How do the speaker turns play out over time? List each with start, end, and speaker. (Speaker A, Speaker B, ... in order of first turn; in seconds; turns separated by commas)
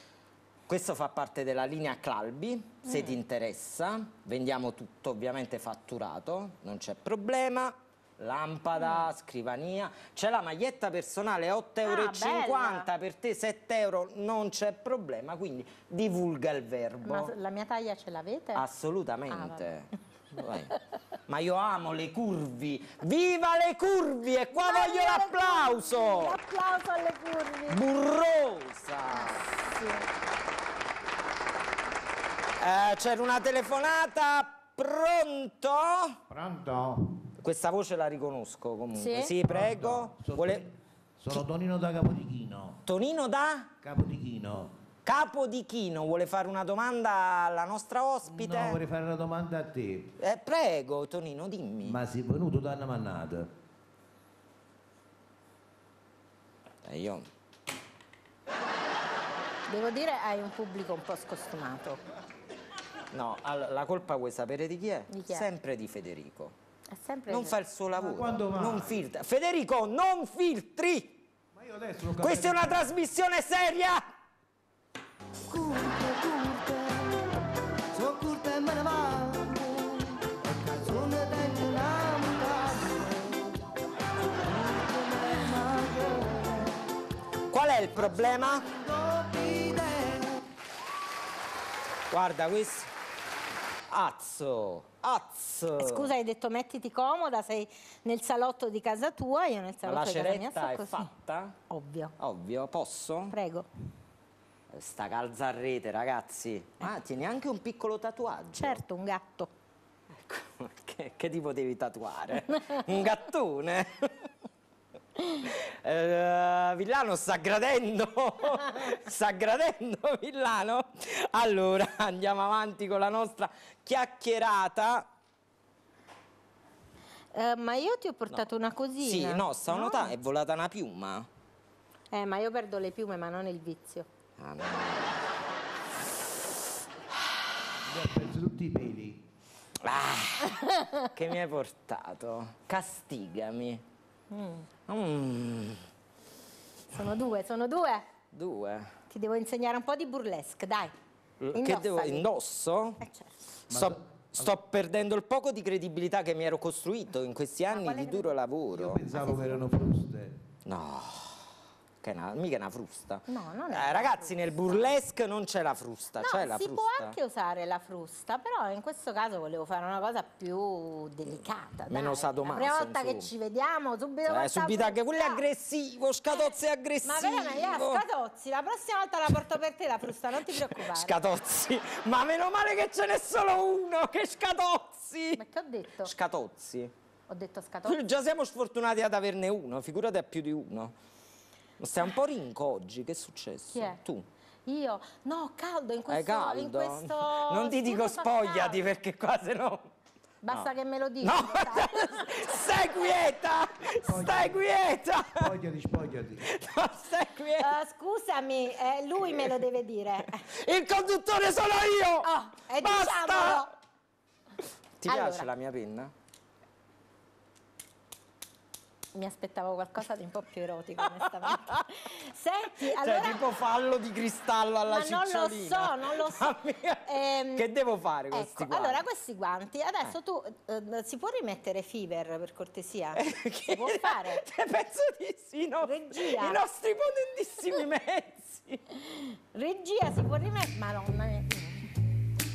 Speaker A: 0.7-17.3, Speaker B: 2.9-3.2, Speaker B: 8.8-9.1, Speaker B: 11.8-12.9, Speaker B: 17.0-18.6, Speaker A: 18.5-20.7, Speaker B: 19.3-19.7, Speaker A: 21.3-26.4, Speaker B: 24.5-27.8, Speaker A: 27.7-29.4, Speaker B: 29.1-30.1, Speaker A: 32.6-36.2, Speaker C: 36.3-37.3, Speaker A: 37.4-40.6, Speaker B: 38.9-39.3, Speaker C: 39.4-42.8, Speaker A: 42.9-43.7, Speaker C: 43.8-44.8, Speaker A: 45.0-48.8, Speaker C: 48.2-50.1, Speaker A: 50.2-52.0, Speaker C: 51.8-53.5, Speaker A: 56.8-57.3, Speaker B: 59.7-62.0, Speaker A: 63.1-66.5, Speaker B: 65.1-65.5, Speaker B: 66.9-67.5, Speaker A: 67.3-71.1, Speaker C: 68.0-69.0, Speaker C: 71.5-72.9, Speaker A: 72.2-74.1, Speaker D: 75.5-77.2, Speaker D: 77.9-83.6, Speaker D: 84.4-86.7, Speaker A: 87.5-88.6, Speaker D: 88.6-90.4, Speaker A: 92.1-92.9, Speaker A: 93.9-96.1, Speaker B: 95.8-101.1, Speaker A: 99.8-101.6, Speaker B: 101.7-102.1, Speaker A: 102.2-103.3, Speaker B: 103.3-103.7, Speaker A: 104.7-108.8, Speaker B: 108.5-109.5, Speaker A: 110.2-114.3, Speaker A: 115.4-125.1, Speaker B: 127.3-130.1, Speaker A: 129.0-131.3, Speaker B: 132.1-134.1, Speaker A: 134.4-135.2, Speaker C: 137.8-139.2, Speaker A: 139.8-143.8, Speaker B: 140.6-140.9, Speaker B: 144.3-144.7, Speaker A: 144.9-145.8, Speaker B: 146.9-148.0, Speaker A: 148.3-148.9, Speaker B: 149.1-150.9, Speaker A: 151.4-153.0, Speaker B: 151.5-152.2, Speaker B: 153.0-153.3, Speaker A: 153.7-159.0, Speaker C: 153.7-154.5, Speaker B: 157.7-158.3, Speaker C: 158.7-160.4, Speaker B: 159.1-159.7, Speaker A: 160.6-161.4, Speaker A: 162.0-167.2, Speaker B: 163.3-164.9, Speaker B: 166.2-175.4, Speaker A: 171.9-173.3, Speaker A: 174.2-178.0, Speaker B: 177.0-181.1, Speaker A: 180.8-185.4, Speaker B: 185.3-186.1, Speaker A: 186.0-186.9, Speaker B: 187.3-188.1, Speaker A: 187.8-190.9, Speaker A: 191.8-194.2, Speaker B: 193.7-194.0, Speaker B: 194.7-198.8, Speaker A: 196.1-199.9, Speaker B: 200.4-202.6, Speaker A: 201.2-205.5, Speaker C: 204.0-204.6, Speaker C: 205.4-206.5, Speaker A: 206.5-207.7, Speaker B: 207.6-210.4, Speaker A: 210.4-212.3, Speaker B: 212.2-213.7, Speaker A: 212.8-213.7, Speaker A: 215.0-216.1, Speaker B: 215.1-215.5, Speaker B: 219.1-223.4, Speaker A: 221.4-221.8, Speaker A: 222.9-229.0, Speaker B: 224.9-227.7, Speaker B: 228.3-234.4, Speaker A: 233.1-238.8, Speaker B: 235.8-236.6, Speaker B: 239.1-241.9